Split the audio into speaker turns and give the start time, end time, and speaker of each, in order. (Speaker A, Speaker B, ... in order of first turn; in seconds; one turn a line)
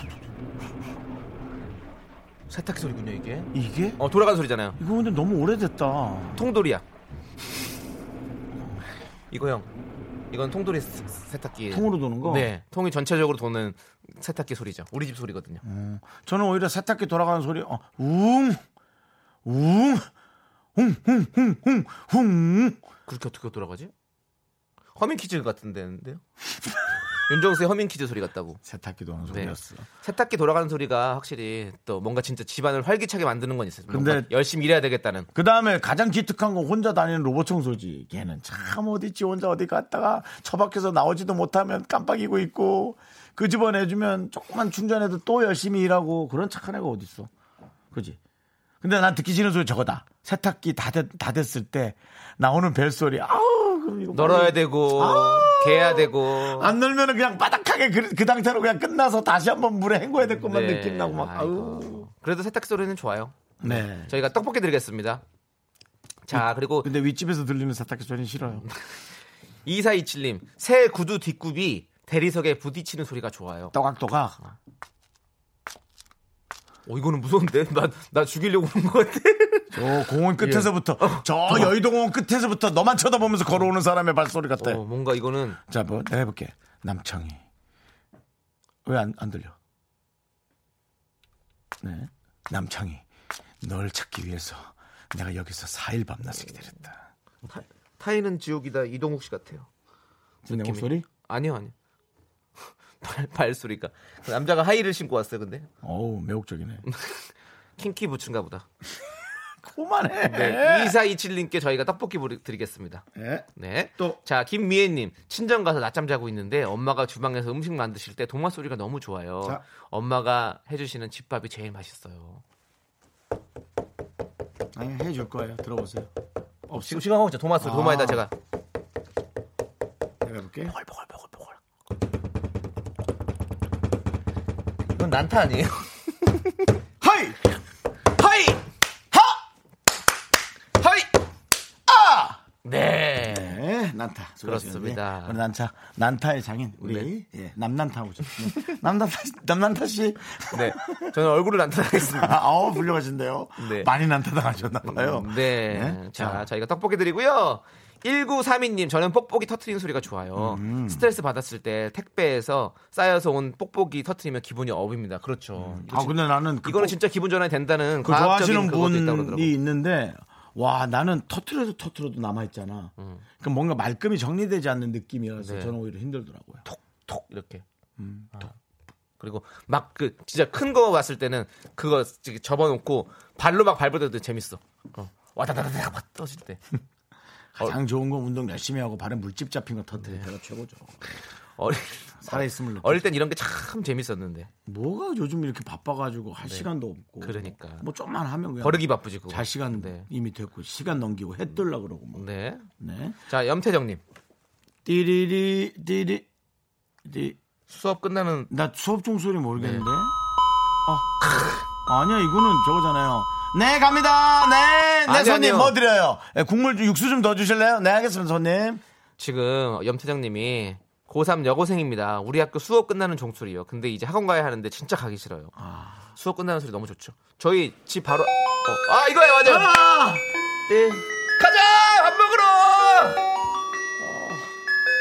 Speaker A: 2.5-4.8
Speaker B: 3.5-4.0
Speaker B: 4.8-6.4
Speaker A: 6.3-6.8
Speaker A: 9.3-9.7
Speaker A: 10.3-15.6
Speaker B: 11.7-12.5
Speaker B: 15.6-18.6
Speaker B: 19.4-20.1
Speaker B: 20.8-22.8
Speaker A: 23.1-23.9
Speaker A: 24.9-26.2
Speaker A: 27.3-28.6
Speaker B: 28.6-29.9
Speaker A: 29.3-35.3
Speaker B: 33.9-34.3
Speaker B: 35.3-47.3
Speaker B: 47.9-48.2
Speaker B: 48.8-62.1
Speaker A: 54.1-56.7
Speaker A: 60.3-65.2
Speaker B: 63.6-64.1
Speaker A: 66.2-66.9
Speaker B: 66.3-68.6
Speaker A: 69.7-73.7
Speaker B: 73.7-74.4
Speaker A: 76.9-79.8
Speaker B: 79.7-84.8
Speaker A: 80.4-81.7
Speaker A: 84.6-85.6
Speaker B: 85.7-87.4
Speaker B: 88.8-89.5
Speaker B: 91.8-93.0
Speaker B: 93.6-97.1
Speaker A: 97.5-99.7
Speaker A: 100.4-101.7
Speaker B: 100.5-101.0
Speaker A: 103.0-105.7
Speaker B: 105.8-106.8
Speaker A: 106.9-107.3
Speaker A: 107.8-108.7
Speaker B: 109.6-111.0
Speaker A: 110.2-113.0
Speaker B: 113.1-114.2
Speaker A: 113.6-122.4
Speaker B: 124.7-126.1
Speaker B: 126.7-127.0
Speaker A: 126.7-128.3
Speaker B: 127.6-128.2
Speaker B: 130.2-130.7
Speaker A: 130.7-131.6
Speaker A: 134.9-136.7
Speaker B: 137.0-137.5
Speaker A: 138.2-138.6
Speaker B: 139.1-139.4
Speaker A: 140.8-141.1
Speaker B: 141.9-142.4
Speaker A: 142.6-143.6
Speaker B: 143.2-151.2
Speaker A: 144.4-145.4
Speaker A: 146.8-147.1
Speaker A: 150.5-152.4
Speaker B: 152.0-156.4
Speaker A: 153.6-153.9
Speaker A: 154.9-169.5
Speaker B: 160.4-161.1
Speaker B: 165.6-167.0
Speaker B: 168.0-176.6
Speaker A: 173.0-173.2
Speaker A: 175.4-175.7
Speaker A: 176.6-177.6
Speaker B: 178.0-178.5
Speaker A: 179.2-186.6
Speaker B: 187.6-191.2
Speaker A: 190.0-190.2
Speaker A: 191.6-194.5
Speaker B: 192.2-193.1
Speaker B: 194.7-202.2
Speaker A: 197.2-197.9
Speaker A: 198.6-200.1
Speaker A: 202.1-202.7
Speaker B: 202.8-203.2
Speaker A: 203.3-204.0
Speaker B: 204.8-206.2
Speaker B: 207.0-207.4
Speaker A: 207.7-208.5
Speaker B: 208.5-210.1
Speaker A: 209.6-209.9
Speaker B: 210.8-211.1
Speaker B: 211.9-218.8
Speaker A: 215.1-215.7
Speaker A: 219.2-225.5
Speaker B: 225.6-226.0
Speaker A: 226.2-229.7
Speaker B: 229.4-230.2
Speaker A: 230.7-233.2
Speaker B: 234.0-234.5